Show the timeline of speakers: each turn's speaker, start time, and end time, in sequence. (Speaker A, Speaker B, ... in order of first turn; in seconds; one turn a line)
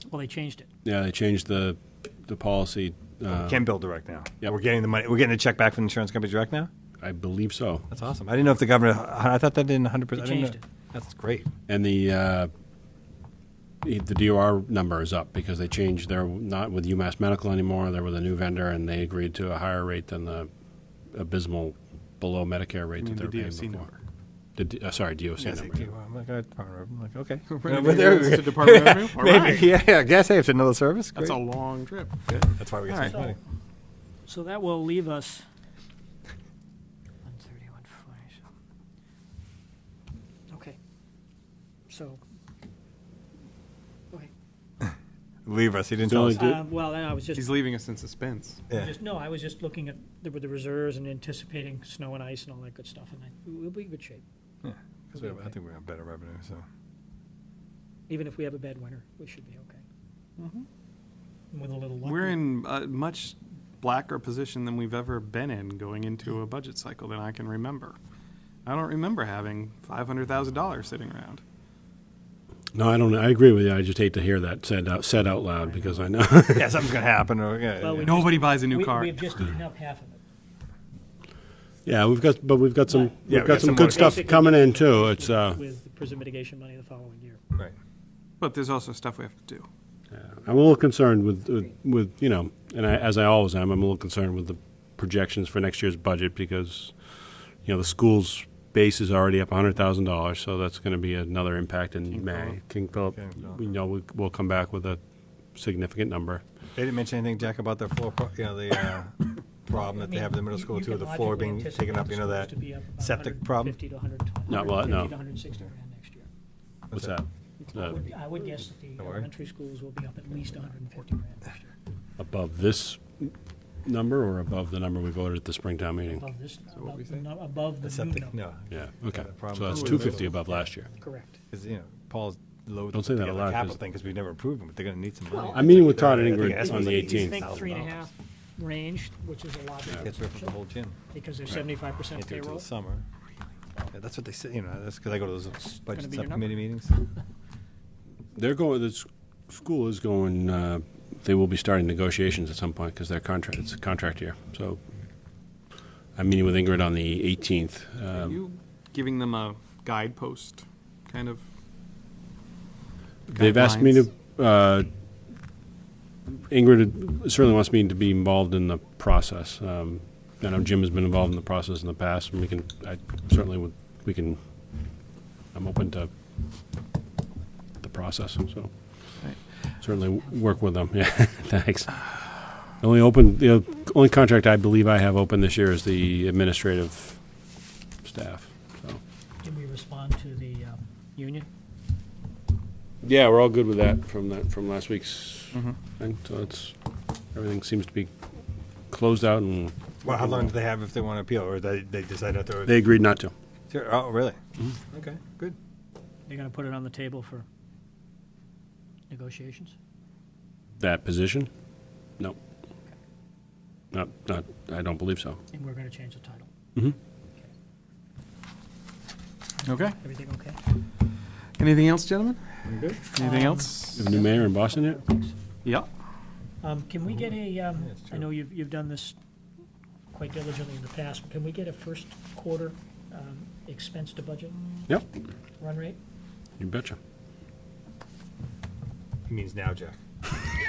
Speaker A: 0.1-0.7
Speaker B: 0.8-3.6
Speaker C: 3.3-6.7
Speaker B: 7.0-7.8
Speaker C: 7.9-11.5
Speaker A: 10.2-10.6
Speaker B: 11.7-12.5
Speaker B: 13.8-20.5
Speaker B: 21.1-23.9
Speaker D: 23.0-23.9
Speaker B: 24.6-25.9
Speaker C: 25.4-31.4
Speaker D: 27.5-29.8
Speaker D: 31.1-33.1
Speaker C: 32.5-33.4
Speaker A: 33.0-33.4
Speaker A: 34.2-35.4
Speaker A: 37.2-38.4
Speaker A: 40.5-40.8
Speaker A: 41.9-42.2
Speaker C: 45.4-46.5
Speaker B: 46.0-46.6
Speaker A: 46.4-47.5
Speaker D: 47.3-48.6
Speaker A: 48.7-54.2
Speaker C: 54.6-56.6
Speaker A: 55.1-55.5
Speaker A: 58.1-59.8
Speaker D: 60.4-60.7
Speaker A: 61.5-62.4
Speaker D: 62.0-68.0
Speaker D: 68.6-71.4
Speaker B: 72.7-76.9
Speaker A: 75.6-76.0
Speaker C: 76.5-78.2
Speaker A: 77.8-80.2
Speaker D: 78.0-79.3
Speaker B: 81.8-85.6
Speaker A: 82.9-87.4
Speaker C: 83.3-84.2
Speaker D: 88.4-89.7
Speaker B: 90.1-106.4
Speaker D: 102.1-102.6
Speaker C: 103.1-103.6
Speaker C: 106.7-113.8
Speaker A: 109.7-116.3
Speaker B: 114.5-115.2
Speaker B: 116.9-118.0
Speaker A: 117.7-121.7
Speaker C: 119.0-119.3
Speaker B: 122.2-126.2
Speaker A: 126.1-128.4
Speaker D: 126.7-127.2
Speaker C: 127.8-130.3
Speaker B: 128.7-130.9
Speaker D: 129.7-130.3
Speaker A: 130.9-131.3
Speaker C: 131.5-138.0
Speaker B: 132.9-133.8
Speaker A: 135.4-135.6
Speaker B: 135.5-137.4
Speaker A: 136.4-140.5
Speaker C: 140.0-140.9
Speaker A: 141.1-142.6
Speaker C: 142.1-143.0
Speaker C: 143.9-146.9
Speaker A: 145.6-146.6
Speaker B: 148.3-154.8
Speaker B: 156.1-158.4
Speaker D: 158.1-161.4
Speaker D: 163.3-164.1
Speaker B: 163.3-164.9
Speaker B: 166.5-175.0
Speaker B: 175.5-176.1
Speaker B: 177.8-187.5
Speaker B: 188.0-189.0
Speaker A: 189.4-191.5
Speaker B: 193.0-196.8
Speaker B: 197.3-198.1
Speaker B: 198.9-200.5
Speaker C: 200.0-202.7
Speaker B: 202.7-203.3
Speaker C: 203.7-204.4
Speaker C: 204.9-205.6
Speaker A: 206.3-207.4
Speaker A: 209.1-209.7
Speaker B: 210.8-211.5
Speaker B: 213.9-215.4
Speaker A: 215.5-216.5
Speaker D: 219.6-220.0
Speaker A: 219.7-220.6
Speaker D: 221.6-222.6
Speaker C: 222.7-223.0
Speaker D: 223.1-224.1
Speaker A: 223.1-225.3
Speaker B: 223.9-225.0
Speaker D: 225.6-225.9
Speaker A: 226.6-229.2
Speaker C: 227.8-228.3
Speaker A: 230.1-234.9
Speaker A: 235.6-236.0
Speaker B: 236.6-237.0
Speaker C: 239.3-240.0